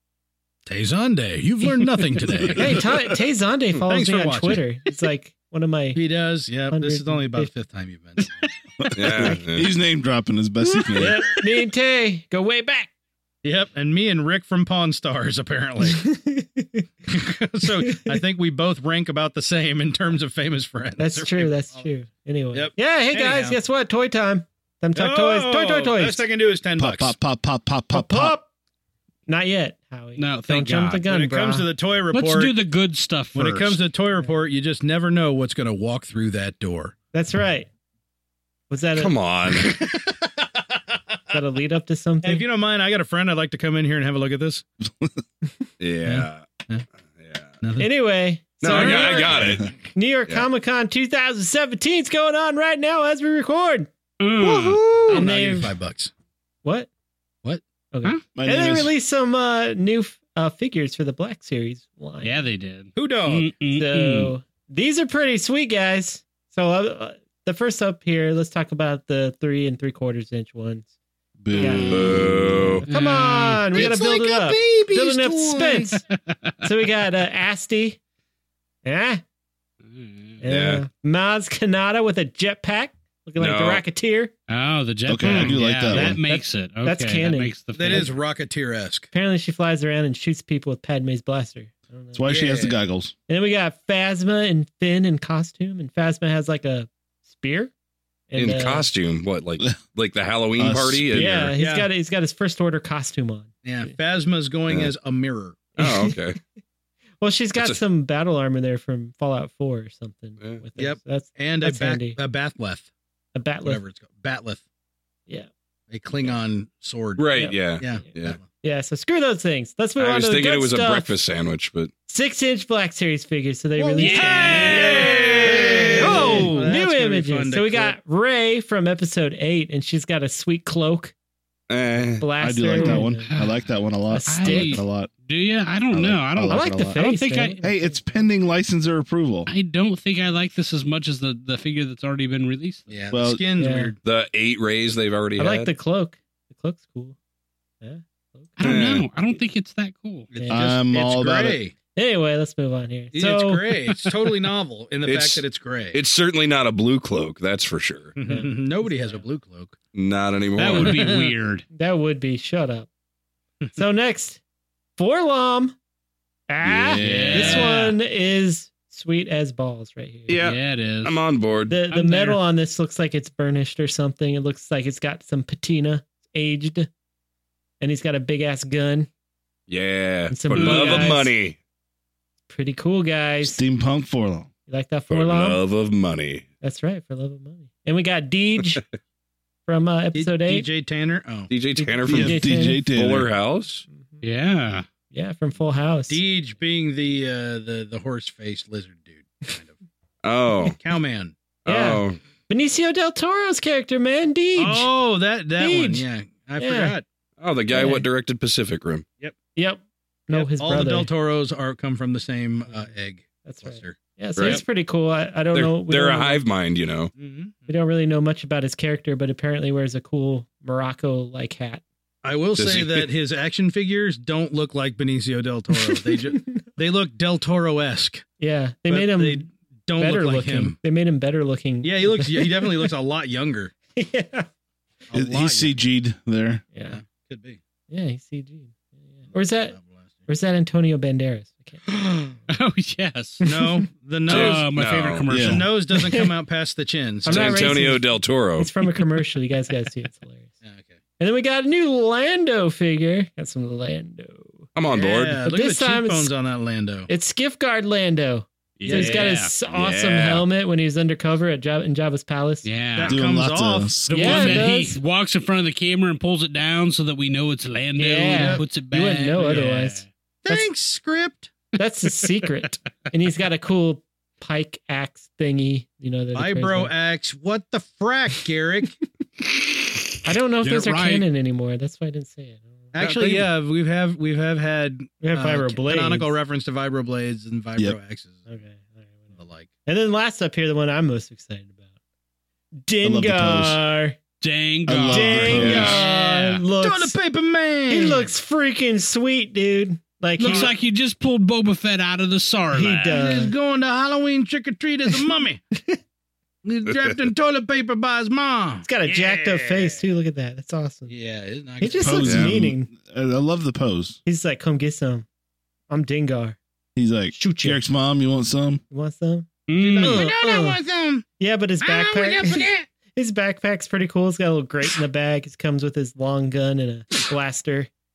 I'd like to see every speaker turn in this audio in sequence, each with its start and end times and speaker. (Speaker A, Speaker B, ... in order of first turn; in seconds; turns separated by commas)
Speaker A: 0.7-2.8, Speaker B: 2.5-6.0, Speaker A: 3.8-4.6, Speaker A: 5.9-8.4, Speaker B: 6.7-7.5, Speaker C: 8.8-11.2, Speaker D: 8.9-9.7, Speaker B: 10.9-12.9, Speaker A: 13.4-16.1, Speaker B: 15.9-16.9, Speaker A: 17.1-21.8, Speaker B: 17.9-18.2, Speaker B: 21.0-26.2, Speaker A: 22.5-23.6, Speaker A: 24.9-27.1, Speaker C: 26.8-28.3, Speaker B: 27.9-28.5, Speaker B: 29.3-31.7, Speaker E: 30.2-31.0, Speaker A: 31.0-32.5, Speaker E: 32.1-33.8, Speaker A: 33.3-36.9, Speaker B: 37.1-37.7, Speaker B: 38.7-39.1, Speaker D: 39.0-39.7, Speaker A: 39.6-40.3, Speaker B: 41.3-42.4, Speaker A: 42.2-44.6, Speaker D: 45.8-46.6, Speaker A: 46.0-46.8, Speaker D: 47.2-47.5, Speaker A: 47.6-47.9, Speaker B: 47.8-53.9, Speaker D: 48.6-49.7, Speaker A: 48.7-49.4, Speaker C: 49.2-49.6, Speaker E: 54.2-55.2, Speaker A: 54.4-56.1, Speaker B: 55.1-55.7, Speaker B: 56.6-56.9, Speaker B: 57.9-62.4, Speaker C: 58.3-58.9, Speaker E: 62.2-64.3, Speaker A: 62.9-63.5, Speaker B: 63.7-70.9, Speaker C: 71.4-72.8, Speaker B: 71.5-72.1, Speaker E: 71.6-71.9, Speaker D: 71.9-72.8, Speaker B: 72.8-76.0, Speaker E: 72.9-73.6, Speaker A: 73.7-75.9, Speaker B: 76.6-78.0, Speaker B: 78.8-79.2, Speaker E: 79.9-80.4, Speaker B: 80.4-84.3, Speaker D: 80.5-80.8, Speaker D: 83.4-83.8, Speaker E: 84.5-88.1, Speaker C: 85.1-86.2, Speaker B: 85.9-88.1, Speaker A: 87.7-89.1, Speaker B: 89.1-92.2, Speaker C: 92.1-93.1, Speaker A: 92.3-92.8, Speaker B: 93.3-97.7, Speaker B: 98.3-98.9, Speaker D: 98.3-101.5, Speaker C: 100.6-101.5, Speaker B: 101.1-103.9, Speaker A: 101.6-101.9, Speaker A: 103.6-105.7, Speaker D: 105.7-106.4, Speaker B: 105.8-106.2, Speaker B: 107.2-112.2, Speaker A: 110.8-112.9, Speaker B: 113.3-113.8, Speaker A: 113.6-114.6, Speaker A: 115.9-118.4, Speaker D: 117.2-118.4, Speaker B: 118.6-121.1, Speaker D: 120.0-121.9, Speaker B: 122.1-131.1, Speaker A: 123.8-128.0, Speaker E: 124.0-126.5, Speaker D: 124.7-126.5, Speaker D: 131.7-132.3, Speaker B: 132.2-133.3, Speaker C: 132.4-135.1, Speaker E: 132.8-133.5, Speaker B: 134.1-134.8, Speaker E: 134.3-137.6, Speaker C: 135.9-137.0, Speaker B: 136.5-138.3, Speaker C: 137.6-139.5, Speaker E: 139.5-142.9, Speaker A: 142.9-144.0, Speaker C: 143.1-143.4, Speaker B: 143.6-143.9, Speaker D: 144.0-145.7, Speaker B: 145.4-147.2, Speaker B: 147.8-148.7, Speaker E: 148.6-150.3, Speaker D: 148.6-149.1, Speaker A: 150.3-151.7, Speaker B: 150.3-150.7, Speaker C: 150.5-151.6, Speaker B: 151.9-153.9, Speaker A: 153.1-156.0, Speaker D: 155.0-158.1, Speaker A: 158.2-159.8, Speaker B: 158.2-159.2, Speaker D: 159.9-161.0, Speaker E: 160.6-161.6, Speaker A: 160.6-161.3, Speaker B: 161.7-162.9, Speaker B: 163.7-164.4, Speaker B: 165.0-165.8, Speaker B: 166.5-170.4, Speaker C: 166.6-167.7, Speaker E: 167.0-167.9, Speaker D: 170.3-171.8, Speaker E: 170.4-171.2, Speaker B: 171.7-176.9, Speaker E: 171.9-172.4, Speaker B: 177.8-179.1, Speaker D: 179.7-181.6, Speaker B: 180.3-181.3, Speaker E: 180.5-181.2, Speaker B: 182.5-183.6, Speaker C: 183.4-184.5, Speaker B: 184.7-185.6, Speaker D: 185.1-186.4, Speaker B: 186.6-188.8, Speaker B: 189.7-190.7, Speaker A: 190.1-191.5, Speaker D: 191.5-193.8, Speaker B: 191.8-192.8, Speaker C: 192.1-193.3, Speaker B: 193.9-194.2, Speaker E: 194.2-194.8, Speaker B: 195.1-196.2, Speaker A: 196.1-199.7, Speaker D: 200.2-200.8, Speaker A: 200.7-201.3, Speaker D: 201.6-202.2, Speaker B: 201.7-204.9, Speaker A: 204.6-207.0, Speaker B: 205.6-206.0, Speaker B: 206.6-206.9, Speaker D: 207.4-209.1, Speaker B: 207.7-208.0, Speaker B: 209.6-211.1, Speaker A: 210.3-214.0, Speaker B: 213.4-216.4, Speaker D: 214.3-214.6, Speaker D: 215.5-217.1, Speaker A: 217.2-217.7, Speaker B: 217.7-221.8, Speaker A: 222.2-228.2, Speaker D: 222.6-223.1, Speaker B: 225.9-226.6, Speaker B: 228.4-232.9, Speaker A: 228.9-230.8, Speaker A: 231.8-233.7, Speaker B: 233.9-234.5, Speaker A: 235.1-235.8, Speaker C: 235.1-236.6, Speaker B: 236.7-237.0, Speaker A: 236.9-237.6, Speaker B: 237.9-239.7, Speaker A: 239.3-240.1, Speaker B: 240.3-241.9, Speaker E: 242.5-243.4, Speaker B: 243.4-243.8, Speaker A: 243.4-244.7, Speaker D: 244.2-245.3, Speaker E: 244.2-246.0, Speaker C: 245.3-245.6, Speaker A: 245.3-247.7, Speaker B: 245.9-246.3, Speaker B: 247.2-250.5, Speaker D: 247.3-248.7, Speaker A: 250.6-251.0, Speaker B: 251.2-254.7, Speaker D: 254.7-255.4, Speaker A: 254.9-257.1, Speaker B: 255.4-256.3, Speaker B: 257.1-262.7, Speaker E: 258.8-259.5, Speaker A: 258.8-259.3, Speaker D: 259.6-260.4, Speaker E: 262.6-263.2, Speaker A: 262.9-264.0, Speaker C: 263.0-264.4, Speaker E: 264.1-270.1, Speaker B: 264.1-265.0, Speaker B: 267.9-270.7, Speaker A: 268.3-268.6, Speaker A: 270.4-271.5, Speaker B: 271.7-276.9, Speaker A: 276.3-279.0, Speaker B: 280.2-282.9, Speaker E: 280.6-281.2, Speaker A: 282.9-288.4, Speaker D: 283.0-283.5, Speaker B: 285.2-286.3, Speaker B: 288.5-289.3, Speaker A: 289.3-289.7, Speaker B: 289.9-291.8, Speaker B: 292.7-294.2, Speaker C: 293.0-293.8, Speaker E: 294.4-296.6, Speaker C: 294.9-295.9, Speaker B: 295.1-297.2, Speaker D: 295.5-296.0, Speaker A: 295.8-296.1, Speaker A: 296.8-298.3, Speaker B: 297.9-300.7, Speaker E: 300.4-303.2, Speaker A: 300.4-300.7, Speaker B: 302.7-303.5, Speaker A: 303.1-305.6, Speaker A: 306.6-310.0, Speaker D: 306.9-307.1, Speaker B: 308.8-311.1, Speaker A: 311.1-312.4, Speaker B: 311.8-312.9, Speaker C: 312.0-314.2, Speaker D: 312.2-312.5, Speaker B: 314.2-315.2, Speaker B: 315.9-316.6, Speaker C: 316.9-318.8, Speaker B: 317.3-317.8, Speaker B: 318.9-320.8, Speaker E: 319.7-320.3, Speaker A: 319.8-321.2, Speaker B: 321.4-327.9, Speaker A: 321.8-322.9